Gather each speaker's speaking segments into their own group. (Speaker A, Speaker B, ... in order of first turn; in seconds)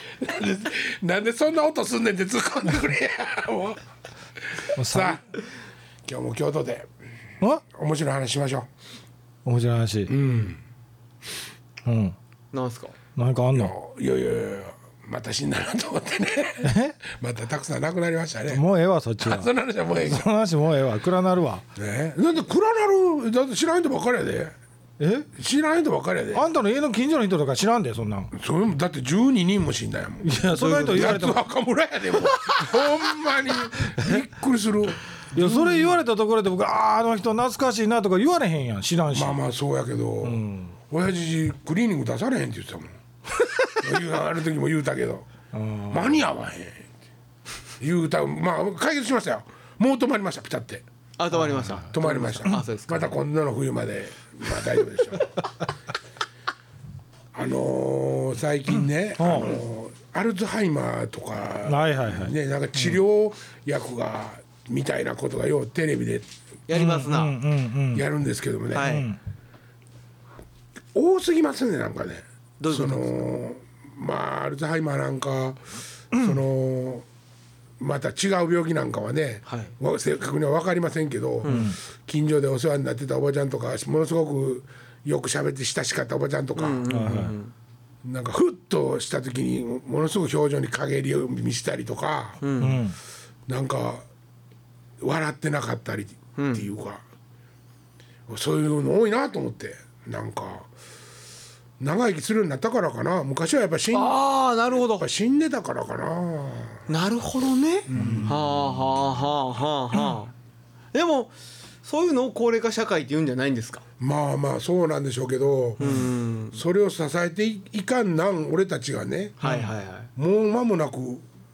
Speaker A: 0.2-3.8, 4.5-5.2, 6.0-6.9, 7.7-8.7, 10.1-10.6, 13.5-18.6, 19.2-20.2, 21.8-24.5, 25.3-26.4, 28.3-35.9, 39.1-42.9, 43.8-45.3, 45.9-46.9, 47.8-50.8, 51.7-55.3, 57.3-66.3, 67.9-69.0, 70.9-75.6, 76.1-77.0, 77.8-86.8, 88.0-92.4, 93.5-94.0, 95.0-97.0, 98.3-100.7, 101.8-104.2, 105.0-106.8, 107.9-108.4, 114.0-116.0, 116.5-119.4, 120.2-121.2
Speaker B: 4.8-5.2, 9.4-10.2, 11.8-12.2, 13.2-13.7, 16.6-17.0, 18.5-21.6, 25.0-25.3, 26.3-28.3, 30.2-31.4, 35.3-39.4, 40.2-40.7, 45.5-46.2, 59.2-59.5, 61.7-63.0, 66.7-68.0, 68.8-69.2, 81.5-81.8, 86.9-87.3, 92.6-93.0, 108.0-108.2, 119.4-119.7
Speaker C: 12.5-12.9, 30.6-31.2, 51.2-53.1, 66.7-67.3, 68.7-69.0, 72.6-73.1, 81.4-81.7, 86.5-87.5, 92.4-92.8, 96.3-96.7, 103.9-105.1, 106.9-110.3, 110.9-111.3, 111.8-113.8, 115.8-116.6, 119.4-120.1